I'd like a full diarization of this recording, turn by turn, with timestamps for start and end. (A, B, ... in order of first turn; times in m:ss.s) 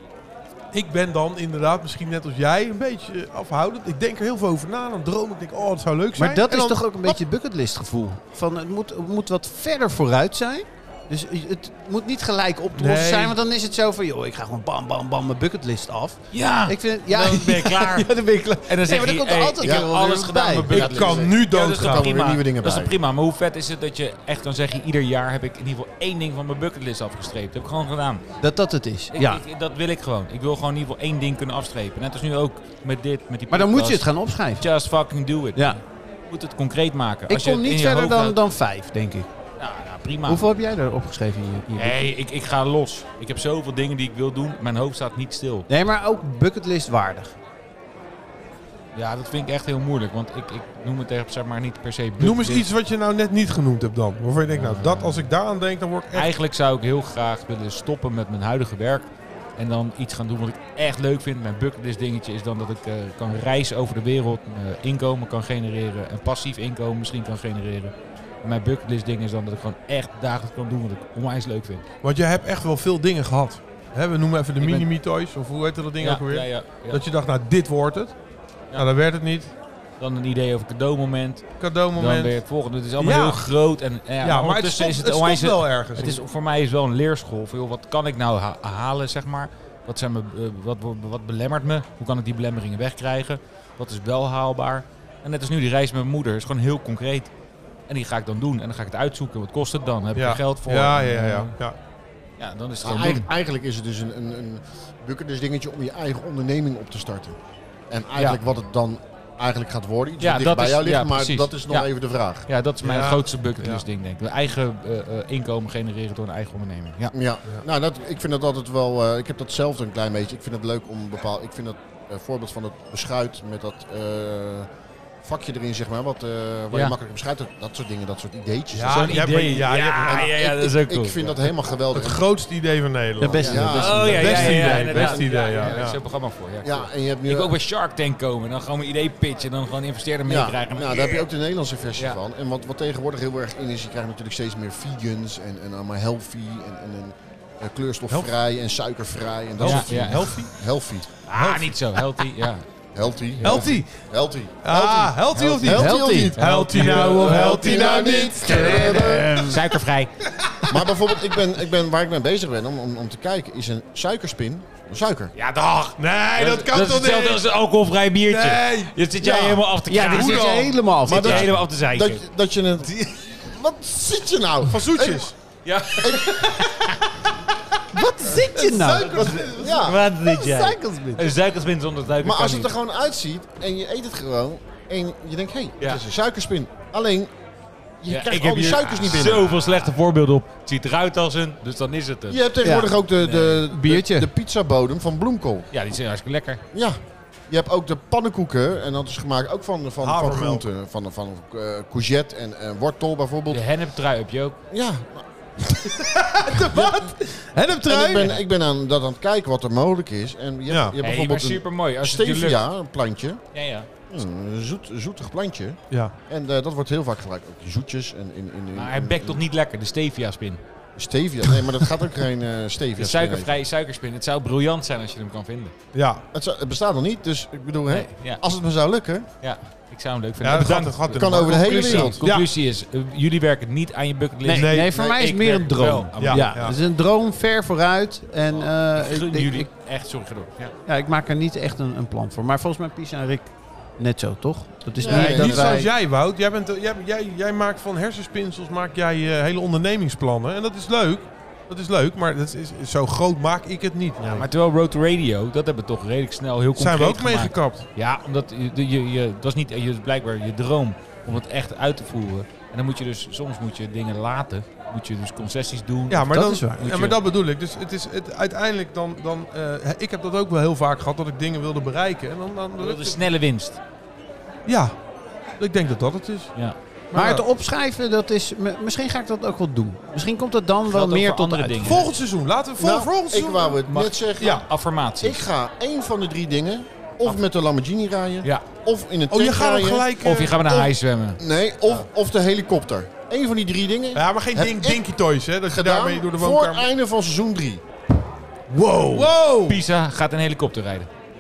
0:00.7-0:07.2 A
0:06.2-0:20.7 B
0:12.8-0:13.4 A
0:16.3-0:18.1 C
0:18.7-0:28.2 C
0:19.6-0:19.9 D
0:20.7-0:22.1 A
0:20.7-0:23.0 D
0:28.4-0:29.4 B
0:29.1-0:38.4 C
0:33.5-0:34.7 B
0:37.3-0:39.3 B
0:39.6-0:40.4 C
0:40.3-0:42.0 B
0:41.8-0:45.7 C
0:45.7-0:47.4 B
0:49.0-0:52.7 C
0:52.2-0:56.3 A
0:54.5-0:55.3 C
0:56.1-1:11.8 C
1:12.0-1:18.2 A
1:14.6-1:14.9 C
1:16.0-1:17.0 C
1:18.8-1:19.5 A
1:20.0-1:37.3 C
1:21.6-1:22.3 A
1:23.0-1:23.4 A
1:24.2-1:26.2 A
1:37.9-1:41.5 C
1:40.1-1:41.8 A
1:42.4-1:43.3 C
1:42.8-1:47.4 D
1:47.9-1:52.5 D
1:50.2-1:51.9 C
1:52.5-1:57.1 C
1:52.8-1:53.8 A
1:57.1-2:04.7 D
2:05.2-2:09.2 D
2:08.7-2:10.3 A
2:08.9-2:11.4 C
2:10.1-2:12.2 D
2:11.9-2:16.0 A
2:13.2-2:15.4 B
2:13.2-2:14.6 D
2:13.5-2:21.3 C
2:16.6-2:17.6 D
2:20.3-2:31.1 D
2:29.6-2:30.4 C
2:29.6-2:30.5 A
2:31.3-2:32.6 C
2:31.3-2:31.8 A
2:33.0-2:35.0 D
2:33.4-2:33.8 C
2:33.4-2:34.0 A
2:34.6-2:39.4 A
2:35.0-2:35.8 C
2:35.6-2:39.4 D
2:35.7-2:39.7 B
2:36.4-2:40.1 C
2:40.7-2:45.3 D
2:45.4-2:52.2 C
2:46.0-2:47.4 A
2:48.3-2:50.8 A
2:49.9-2:51.5 B
2:51.0-2:55.3 D
2:54.7-2:55.4 A
2:55.6-2:57.2 C
2:56.0-2:56.6 D
2:57.9-2:59.5 B
2:58.3-2:59.8 A
2:59.1-3:00.1 D
2:59.6-3:02.7 C
3:00.2-3:01.3 B
3:02.2-3:07.3 D
3:08.0-3:09.6 D
3:08.1-3:12.4 C
3:12.3-3:15.7 D
3:12.6-3:14.3 B
3:13.2-3:13.6 C
3:15.7-3:16.6 C
3:16.7-3:17.0 D
3:17.5-3:23.6 D
3:20.0-3:20.6 A
3:23.5-3:24.6 C
3:24.7-3:26.0 D
3:25.8-3:28.4 A
3:26.7-3:27.1 D
3:27.9-3:33.4 D
3:30.7-3:31.0 A
3:31.0-3:32.6 C
3:33.5-3:33.9 C
3:34.1-3:39.4 D
3:38.7-3:40.6 C
3:41.0-3:43.6 D
3:43.0-3:45.7 C
3:45.9-3:46.2 A
3:46.3-3:49.3 D
3:47.9-3:48.4 C
3:49.4-3:56.8 C
3:50.4-3:52.5 A
3:51.2-3:52.2 D
3:54.4-3:59.7 B
3:54.5-3:54.9 A
3:56.2-3:56.8 A
3:58.5-4:00.7 C
4:00.9-4:05.9 B
4:05.0-4:05.9 D
4:05.0-4:14.5 A
4:14.4-4:27.2 C
4:16.8-4:17.8 A
4:26.1-4:33.2 A
4:26.3-4:26.8 B
4:32.8-4:33.8 C
4:34.6-4:35.0 A
4:35.6-4:36.6 A
4:37.1-4:37.4 A
4:37.1-4:42.1 B
4:40.9-4:42.1 C
4:41.8-4:43.8 A
4:42.8-4:44.7 D
4:43.9-4:45.4 C
4:44.4-4:44.7 A
4:45.2-4:50.1 D
4:49.3-4:50.9 A
4:50.2-4:52.0 C
4:51.4-4:55.0 D
4:54.2-4:56.8 A
4:55.7-4:57.8 D
4:58.7-4:59.3 B
4:59.1-4:59.8 A
4:59.6-5:01.1 C